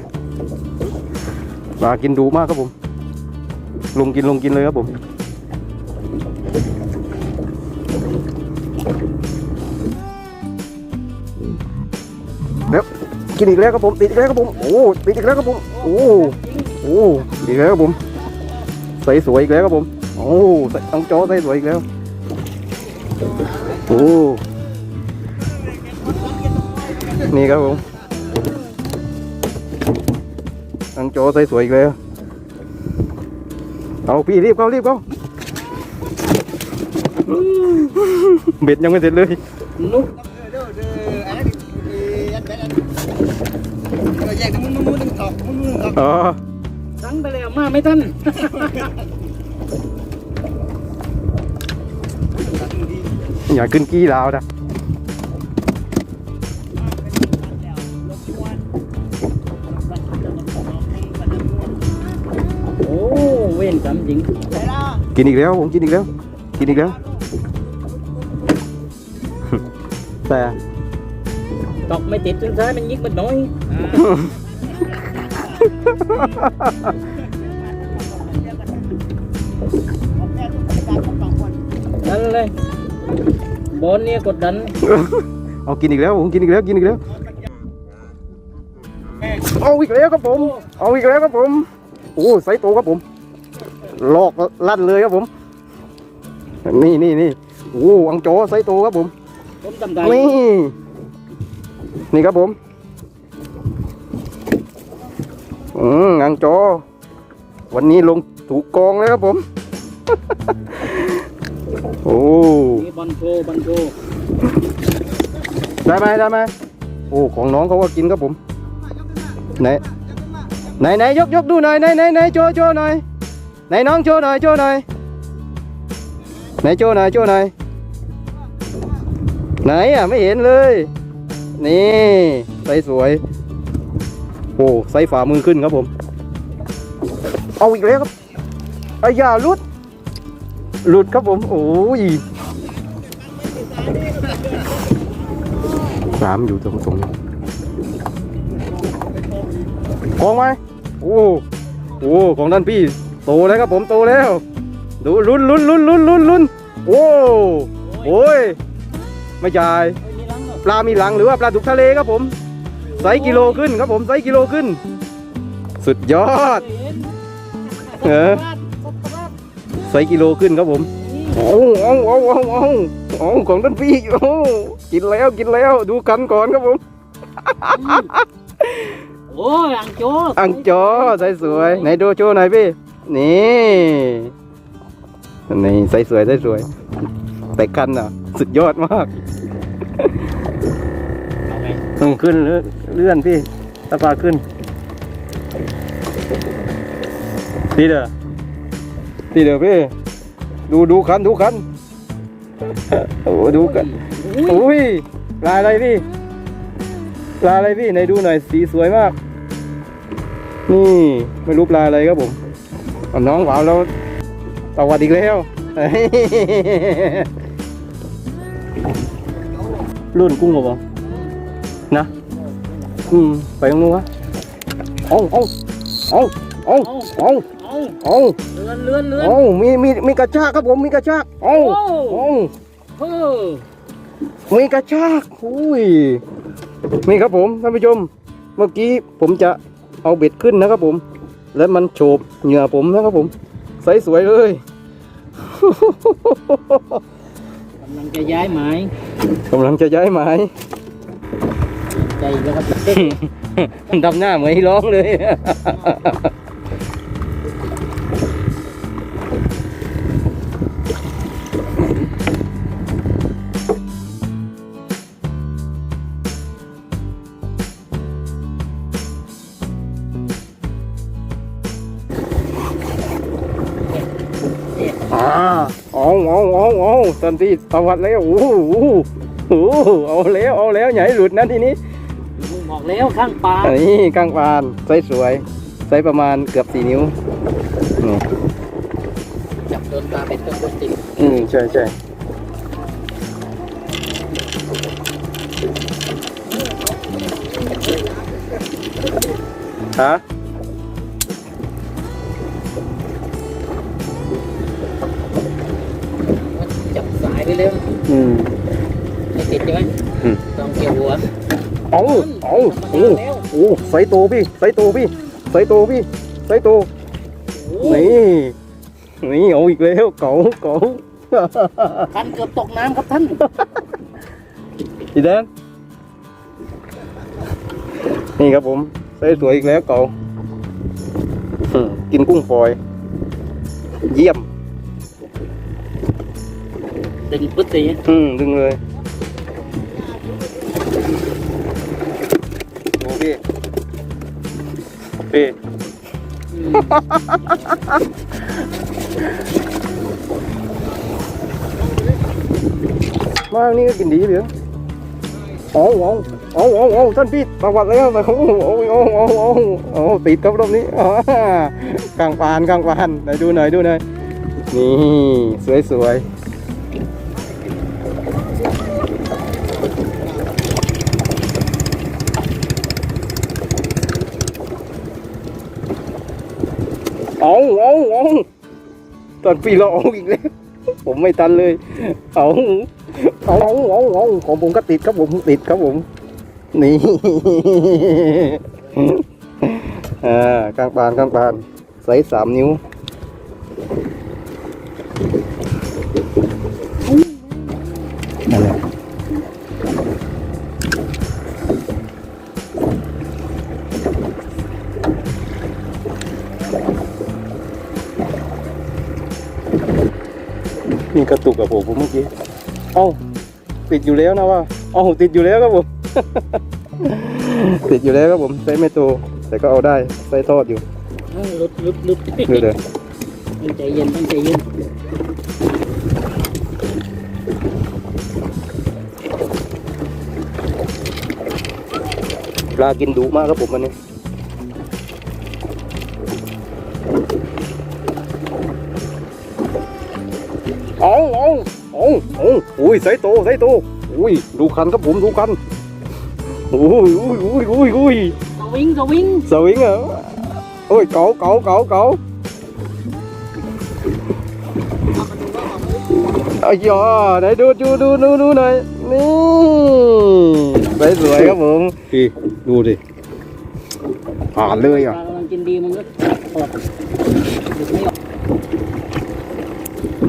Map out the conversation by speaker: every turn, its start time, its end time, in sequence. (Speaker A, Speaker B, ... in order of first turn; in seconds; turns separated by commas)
Speaker A: 1.8-2.7, Speaker A: 3.9-4.9, Speaker A: 12.6-18.0, Speaker B: 15.9-16.8, Speaker A: 18.9-21.8, Speaker A: 23.8-24.4, Speaker A: 27.1-27.9, Speaker A: 30.9-31.9, Speaker A: 34.1-35.0, Speaker A: 37.2-39.4, Speaker B: 39.8-40.2, Speaker C: 40.5-42.7, Speaker C: 44.2-45.7, Speaker A: 45.8-46.4, Speaker B: 47.0-48.9, Speaker A: 53.4-54.4, Speaker B: 62.7-64.5, Speaker A: 65.0-67.0, Speaker A: 70.2-70.6, Speaker B: 71.8-73.8, Speaker A: 73.8-74.3, Speaker A: 76.0-76.9, Speaker B: 82.0-82.5, Speaker B: 83.7-84.7, Speaker A: 84.8-87.0, Speaker A: 89.3-93.0, Speaker B: 90.3-90.7, Speaker A: 93.8-95.3, Speaker A: 96.6-99.1, Speaker B: 99.6-100.4, Speaker A: 100.0-100.7, Speaker A: 102.1-102.5, Speaker A: 105.7-106.8, Speaker A: 107.7-109.4, Speaker A: 110.8-111.2, Speaker A: 112.0-112.9, Speaker B: 112.7-114.0, Speaker A: 115.8-116.5, Speaker A: 117.1-118.4, Speaker A: 119.5-119.8, Speaker A: 120.7-123.0, Speaker A: 123.7-124.8, Speaker A: 126.6-127.5, Speaker A: 129.6-130.9, Speaker A: 131.6-133.2, Speaker A: 134.6-135.9, Speaker A: 137.6-138.1, Speaker A: 139.0-139.6, Speaker A: 140.8-142.2, Speaker A: 146.1-147.1, Speaker A: 150.1-151.4, Speaker A: 152.0-154.4, Speaker A: 155.0-158.6, Speaker B: 157.8-158.3, Speaker A: 159.4-160.0, Speaker B: 160.0-160.6, Speaker A: 160.6-162.3, Speaker B: 162.8-163.7, Speaker A: 163.0-164.8, Speaker A: 165.8-166.6, Speaker B: 166.3-167.1, Speaker B: 167.7-169.3, Speaker A: 168.0-168.4, Speaker A: 169.8-176.8, Speaker B: 171.0-171.4, Speaker A: 177.4-179.0, Speaker B: 177.7-178.1, Speaker B: 179.3-181.9, Speaker A: 180.3-184.3, Speaker A: 185.5-186.7, Speaker A: 187.5-189.1, Speaker B: 191.5-191.8, Speaker A: 191.8-194.4, Speaker A: 197.7-198.1, Speaker A: 199.3-199.9, Speaker A: 200.7-201.6, Speaker A: 202.9-206.0, Speaker B: 203.4-204.6, Speaker A: 207.4-209.1, Speaker A: 210.7-212.4, Speaker A: 213.1-213.9, Speaker A: 214.8-217.3, Speaker A: 220.1-220.8, Speaker A: 223.1-224.1, Speaker A: 225.1-227.5, Speaker B: 226.7-229.4, Speaker A: 228.0-228.5, Speaker A: 229.2-232.5, Speaker B: 231.4-232.3, Speaker B: 232.9-233.6, Speaker A: 234.5-236.2, Speaker A: 236.9-241.0, Speaker A: 241.5-244.6, Speaker A: 245.4-247.0, Speaker B: 247.8-248.9, Speaker A: 249.5-250.5, Speaker B: 251.8-253.2, Speaker A: 252.9-256.3, Speaker B: 253.9-254.5, Speaker A: 275.1-281.8, Speaker B: 282.3-283.8, Speaker A: 283.6-287.1, Speaker A: 287.9-288.2, Speaker B: 289.6-291.4, Speaker A: 291.2-291.9, Speaker A: 299.9-300.2, Speaker B: 306.3-308.0, Speaker A: 308.1-308.5, Speaker B: 309.3-311.3, Speaker A: 311.9-316.9, Speaker B: 312.0-313.5, Speaker B: 317.5-318.2, Speaker A: 317.8-318.5, Speaker A: 319.2-322.1, Speaker B: 322.1-323.4, Speaker A: 323.4-323.7, Speaker A: 325.1-325.5, Speaker A: 328.1-330.1, Speaker A: 331.6-332.8, Speaker A: 334.1-334.4, Speaker B: 337.3-338.0, Speaker A: 338.0-338.8, Speaker A: 343.0-343.4, Speaker A: 345.2-345.5, Speaker B: 346.5-347.0, Speaker A: 346.7-347.9, Speaker A: 353.5-354.5, Speaker A: 355.7-364.0, Speaker A: 364.7-366.2, Speaker A: 377.4-378.4, Speaker A: 379.4-380.5, Speaker A: 381.0-386.0, Speaker A: 386.7-392.8, Speaker B: 397.1-397.5, Speaker A: 398.5-398.8, Speaker A: 411.1-412.3, Speaker A: 412.9-413.2, Speaker A: 413.9-420.8, Speaker B: 421.3-422.7, Speaker A: 422.5-422.8, Speaker B: 423.6-424.6, Speaker A: 432.7-433.9, Speaker A: 441.0-445.6, Speaker A: 446.5-448.4, Speaker B: 448.6-449.5, Speaker A: 449.4-452.2, Speaker A: 456.3-463.0, Speaker A: 464.5-465.2, Speaker B: 464.6-466.8, Speaker B: 467.5-468.1